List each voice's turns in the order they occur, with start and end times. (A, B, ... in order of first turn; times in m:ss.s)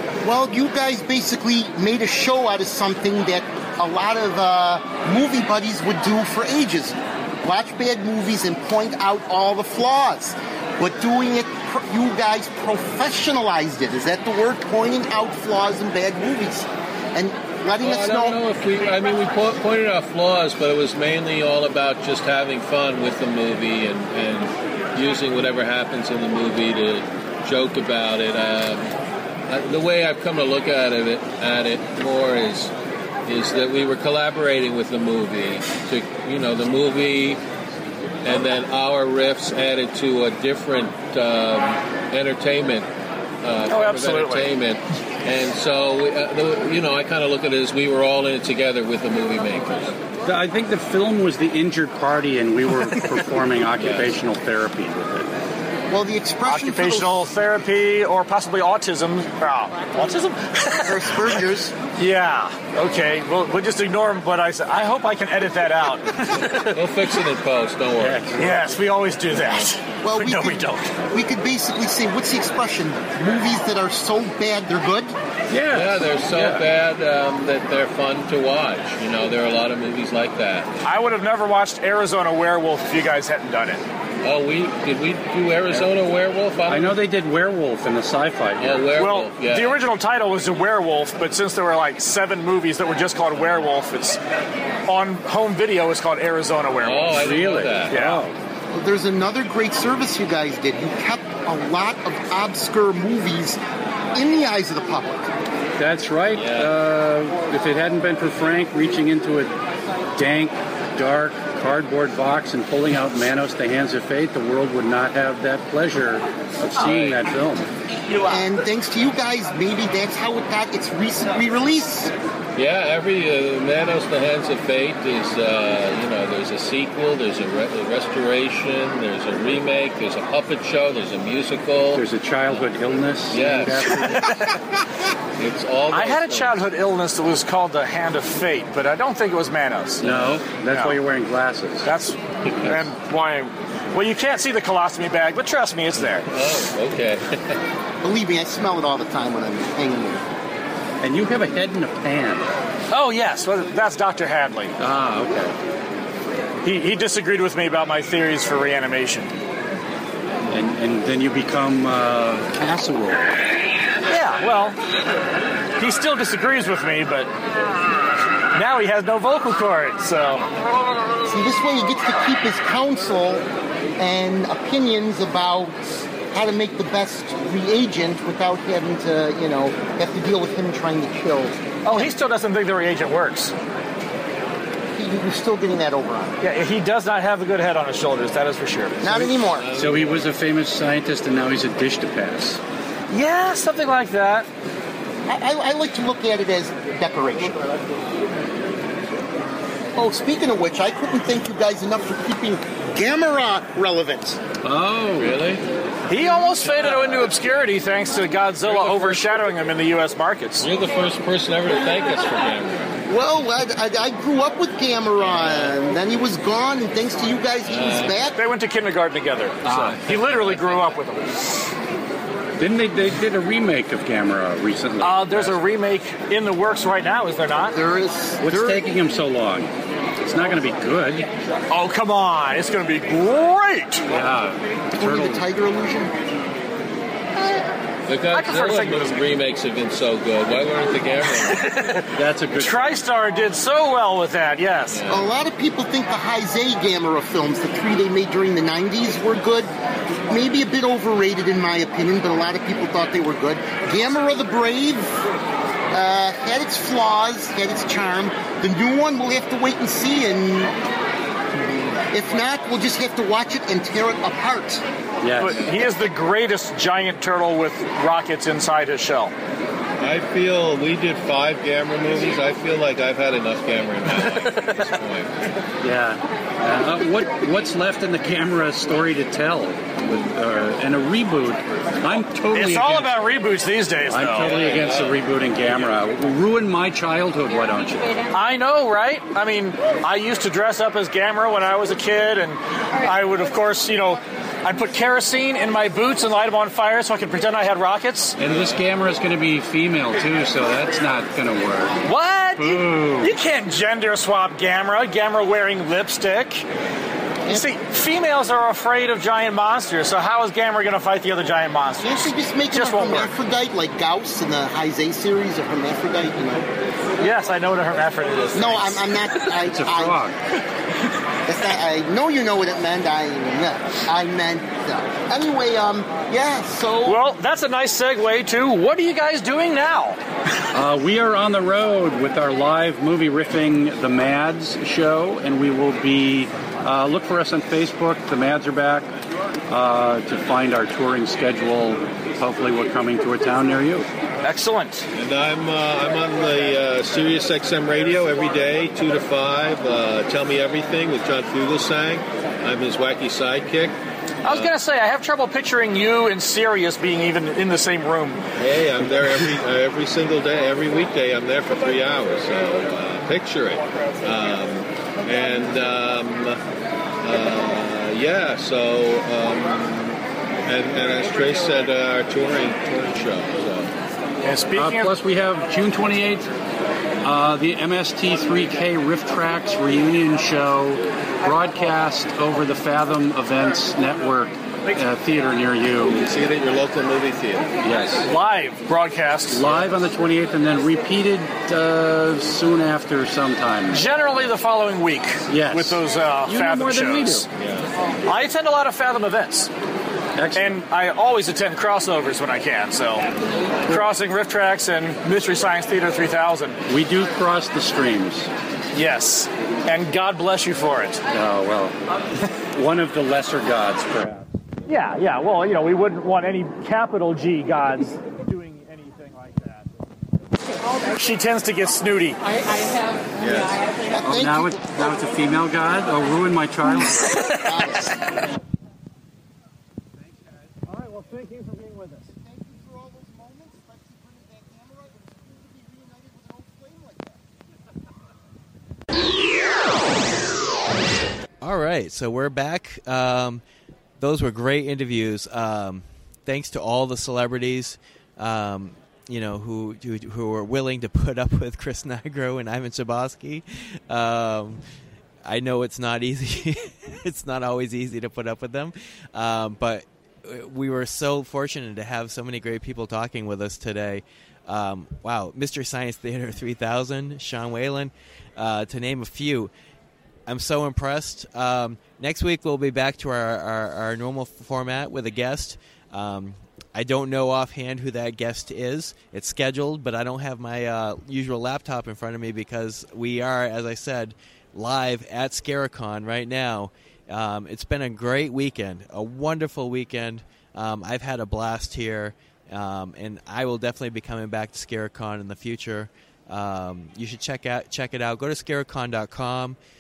0:00.2-0:18.4 A
0:17.8-0:28.9 B
0:29.5-0:32.7 B
0:33.2-0:37.4 B
0:38.2-0:42.9 B
0:43.4-0:49.9 B
0:43.7-0:44.5 C
0:50.2-0:55.3 D
0:53.8-0:54.2 B
0:55.9-0:57.3 A
0:56.5-1:01.0 C
1:00.8-1:01.8 A
1:02.0-1:06.8 C
1:06.7-1:08.3 B
1:08.0-1:08.8 D
1:08.4-1:10.8 C
1:10.0-1:15.1 A
1:15.5-1:16.7 D
1:15.7-1:20.7 B
1:20.8-1:23.8 C
1:24.2-1:27.0 B
1:26.7-1:28.9 D
1:28.6-1:29.8 B
1:28.9-1:34.2 C
1:34.9-1:37.3 C
1:36.8-1:38.0 B
1:37.2-1:38.4 D
1:37.9-1:38.2 C
1:38.7-1:43.6 A
1:44.1-1:45.3 A
1:45.8-1:49.5 D
1:46.3-1:46.7 B
1:50.2-1:57.7 D
1:56.8-1:57.2 B
1:58.2-2:02.1 A
2:02.6-2:12.6 B
2:11.9-2:14.3 D
2:13.3-2:14.2 B
2:14.0-2:14.6 C
2:15.4-2:16.7 B
2:15.9-2:21.0 C
2:20.0-2:21.9 D
2:20.0-2:20.5 B
2:21.8-2:26.3 C
2:26.0-2:27.6 B
2:28.0-2:30.3 A
2:31.0-2:32.5 D
2:32.9-2:34.7 C
2:34.8-2:35.5 D
2:36.6-2:39.3 C
2:40.5-2:43.4 D
2:44.1-2:44.8 C
2:45.8-2:47.3 C
2:48.5-2:50.5 C
2:51.2-2:53.4 A
2:54.0-2:55.8 A
2:56.3-3:02.1 A
3:01.8-3:03.5 C
3:05.0-3:06.4 A
3:06.4-3:09.2 C
3:09.0-3:09.7 A
3:09.5-3:10.3 B
3:09.8-3:12.6 D
3:13.1-3:14.5 C
3:15.3-3:17.6 A
3:20.0-3:24.4 A
3:24.6-3:25.4 D
3:24.7-3:25.6 B
3:26.1-3:30.7 C
3:26.7-3:27.3 B
3:28.7-3:29.2 B
3:30.6-3:32.9 B
3:33.1-3:38.4 A
3:35.2-3:35.7 B
3:37.6-3:38.3 B
3:38.4-3:41.6 C
3:39.7-3:40.0 B
3:42.6-3:45.6 D
3:45.0-3:47.8 C
3:47.7-3:48.8 A
3:48.4-3:49.7 D
3:50.2-3:51.3 D
3:51.7-3:54.0 C
3:54.1-3:55.4 D
3:55.0-3:56.2 A
3:58.1-4:02.0 B
3:58.3-3:59.2 C
4:01.5-4:05.0 C
4:02.1-4:03.0 D
4:04.9-4:05.3 B
4:05.1-4:09.7 A
4:10.3-4:15.1 A
4:15.9-4:20.7 A
4:21.6-4:24.8 A
4:25.2-4:25.6 D
4:25.4-4:29.3 C
4:30.0-4:35.4 B
4:35.8-4:43.1 D
4:42.5-4:44.6 C
4:44.1-4:48.2 D
4:44.4-4:45.9 B
4:48.3-4:58.4 C
4:58.4-5:02.0 D
4:58.5-4:58.8 B
5:02.1-5:06.6 C
5:02.6-5:03.3 D
5:07.5-5:13.3 C
5:12.0-5:16.7 A
5:17.2-5:19.0 C
5:18.5-5:20.2 A
5:19.6-5:20.4 D
5:21.5-5:27.2 A
5:27.1-5:30.2 C
5:30.7-5:39.1 D
5:39.7-5:44.1 D
5:44.4-5:45.1 C
5:45.1-5:53.9 B
5:54.4-5:58.4 C
5:54.4-5:54.7 B
5:58.6-6:06.6 B
6:07.2-6:13.9 B
6:14.4-6:15.1 C
6:14.8-6:16.5 D
6:17.2-6:26.2 D
6:26.1-6:27.8 B
6:27.8-6:28.2 D
6:28.3-6:29.6 C
6:29.5-6:34.0 D
6:33.9-6:37.5 C
6:35.5-6:37.5 D
6:37.6-6:37.8 B
6:38.3-6:39.7 C
6:40.4-6:40.8 D
6:40.6-6:43.3 C
6:43.9-6:46.8 C
6:46.9-6:48.5 D
6:48.9-6:51.2 C
6:51.3-6:52.0 D
6:52.7-6:54.5 D
6:54.9-6:59.9 C
7:01.1-7:02.4 C
7:03.4-7:03.8 B
7:04.0-7:05.4 A
7:04.3-7:07.3 D
7:07.0-7:08.2 A
7:10.9-7:12.3 C
7:12.4-7:17.4 A
7:21.6-7:23.6 E
7:24.2-7:34.8 E
7:35.4-7:49.7 E
7:50.5-8:19.8 E